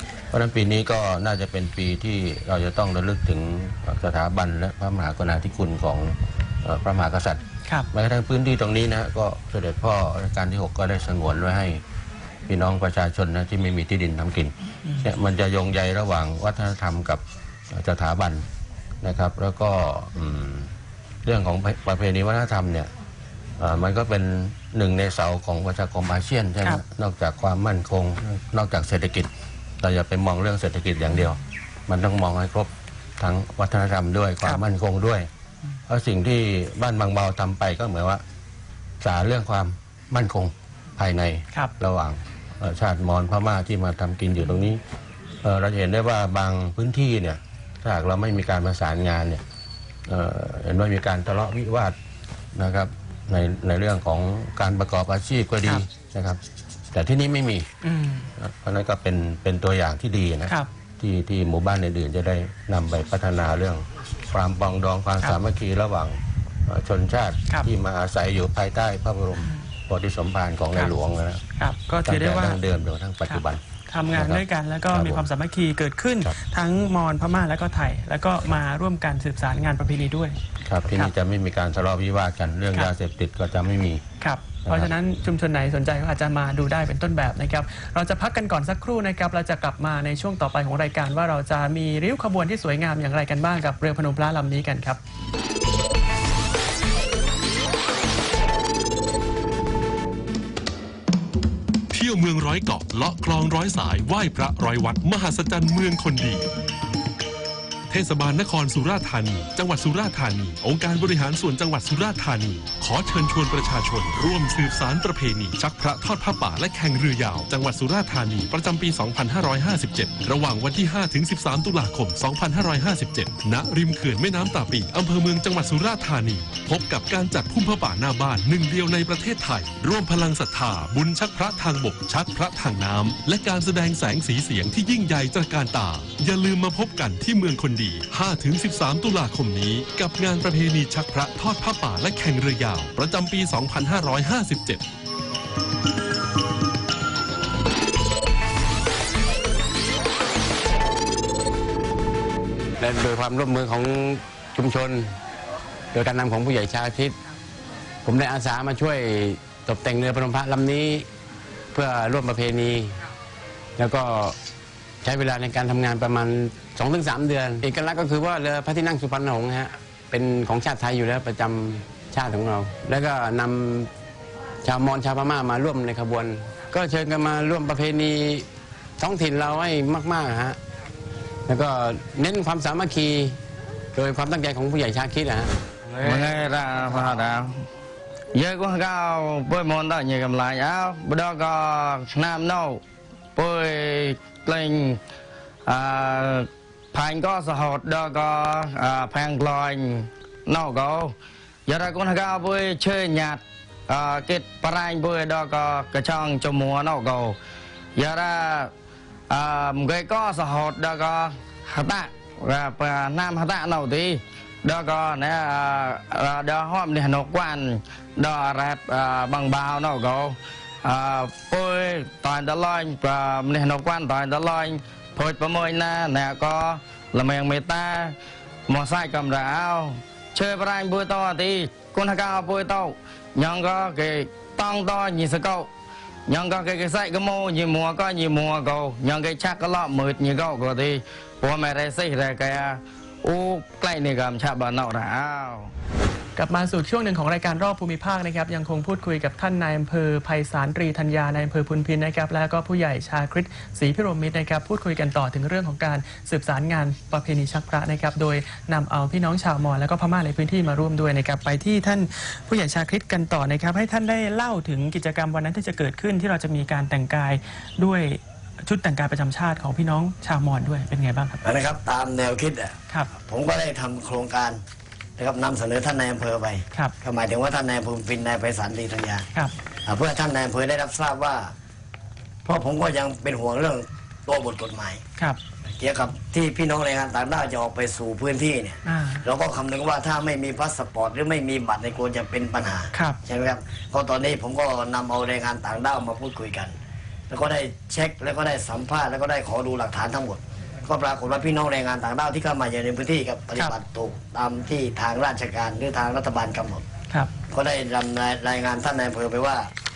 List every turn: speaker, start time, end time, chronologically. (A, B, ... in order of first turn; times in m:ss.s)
0:00.3-0:11.8 A
0:12.5-0:18.4 A
0:14.8-0:15.1 B
0:19.0-0:20.7 A
0:21.2-0:22.9 A
0:23.6-0:35.3 A
0:35.9-0:38.2 A
0:39.0-0:44.8 A
0:45.4-0:49.4 A
0:50.1-0:51.9 A
0:52.5-0:56.4 A
0:56.9-0:57.7 A
0:57.8-0:58.3 B
0:58.4-1:11.4 A
1:11.6-1:12.6 B
1:12.0-1:13.6 A
1:13.3-1:20.4 B
1:14.1-1:15.2 A
1:20.6-1:24.0 A
1:24.2-1:35.0 B
1:24.6-1:24.9 A
1:41.9-1:46.5 C
1:47.9-2:24.8 C
2:32.8-2:35.1 D
2:35.9-2:37.1 D
2:38.0-2:41.0 D
2:41.7-2:43.0 D
2:43.8-2:44.4 D
2:45.0-2:53.9 D
2:54.6-2:58.5 D
2:59.0-3:00.6 D
3:01.5-3:03.4 D
3:03.9-3:05.5 D
3:05.9-3:07.6 E
3:08.3-3:12.8 E
3:13.4-3:15.0 E
3:15.6-3:21.1 E
3:21.7-3:27.4 E
3:28.0-3:28.7 E
3:29.3-3:48.1 E
3:48.7-3:55.7 E
3:56.3-4:05.7 E
4:06.4-4:31.4 B
4:31.4-4:34.6 F
4:35.2-4:39.2 F
4:39.9-4:41.5 F
4:42.4-4:45.0 F
4:45.8-4:56.7 F
4:48.8-4:49.2 B
4:52.9-4:53.2 B
4:57.3-5:06.8 F
5:07.5-5:09.7 F